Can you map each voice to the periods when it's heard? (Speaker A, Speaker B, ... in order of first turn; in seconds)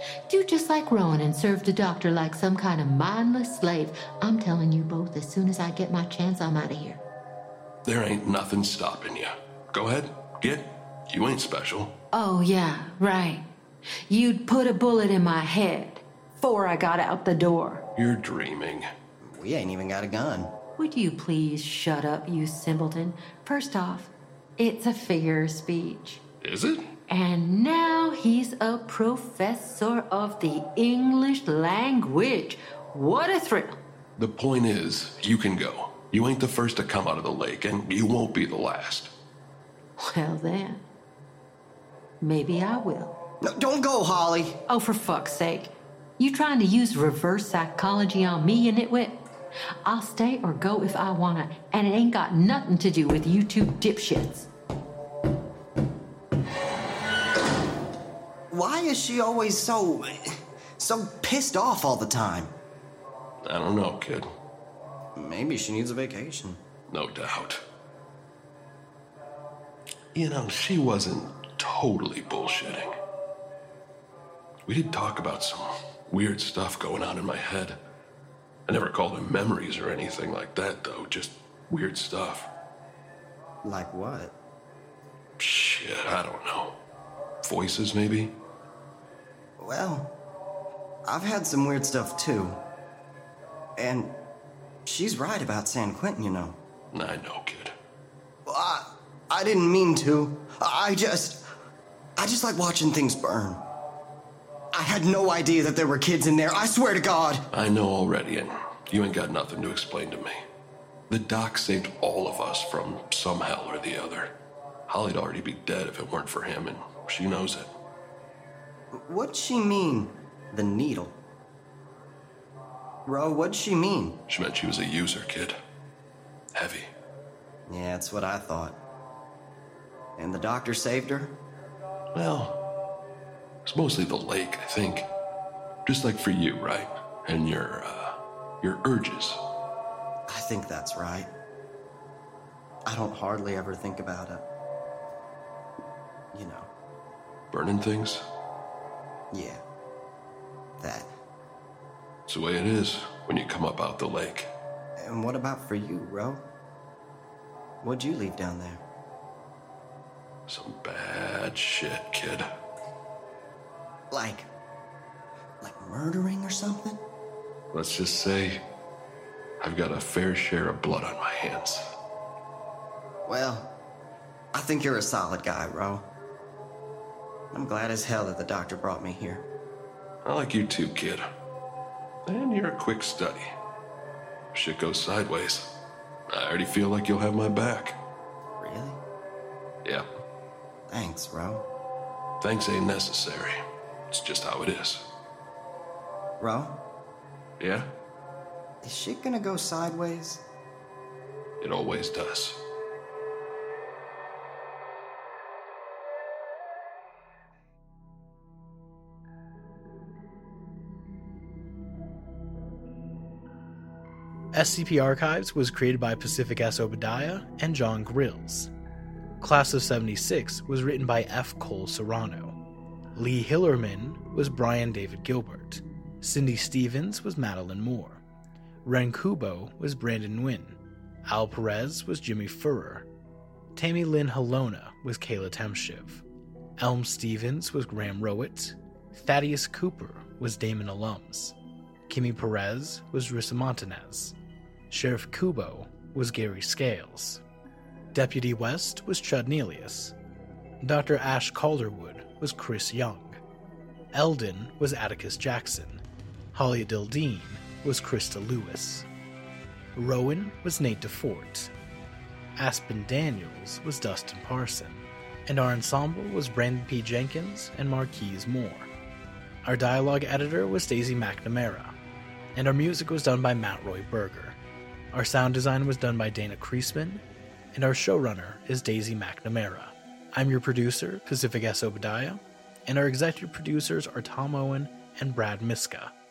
Speaker A: 0.3-7.0, 12.1-13.4, 14.1-17.8, 20.8-26.2, 27.1-33.8, 40.0-40.8, 42.2-43.1, 44.7-49.2, 49.8-54.5
Speaker B: 7.8-11.9, 18.0-18.9, 26.4-26.9, 34.2-39.1, 63.4-64.3, 66.9-67.6, 70.2-72.9, 74.7-77.8, 78.7-82.5, 85.4-86.8, 87.4-88.3, 96.9-97.7, 107.5-110.4, 111.1-114.3, 114.9-117.7, 124.3-125.6, 126.5-126.9, 132.2-132.6, 133.7-135.1, 135.9-139.4, 147.5-148.2, 152.3-154.5, 160.5-162.5, 167.7-168.6, 169.6-171.8, 180.2-181.3, 182.3-183.5, 184.5-185.7, 186.3-188.0, 192.4-193.6, 194.1-195.0, 197.6-197.9, 201.6-202.6
Speaker C: 19.2-20.5, 43.4-44.6, 58.5-62.5, 65.2-66.6, 83.6-84.3, 89.6-90.1, 91.1-92.6, 93.8-94.1, 94.8-96.6, 98.5-101.4, 102.2-103.6, 104.7-107.5, 118.9-121.2, 123.1-124.2, 127.7-128.8, 130.2-131.3, 140.3-141.3, 142.9-144.4, 146.3-146.7, 149.3-149.6, 150.8-151.1, 155.0-156.4, 157.8-158.8, 164.1-164.5, 165.6-167.0, 173.3-173.7, 174.5-176.1, 177.5-179.4, 188.6-189.0, 190.9-191.7, 196.4-196.8, 198.8-200.4
Speaker D: 214.5-218.7, 219.4-222.6, 223.2-228.2, 228.8-233.1, 233.8-236.2, 236.8-241.6, 242.1-244.3, 244.9-247.4, 248.1-250.1, 250.8-253.4, 254.1-256.0, 256.5-259.1, 260.0-261.7, 262.6-268.9, 269.6-271.9, 272.6-274.6, 275.1-277.2, 277.7-286.1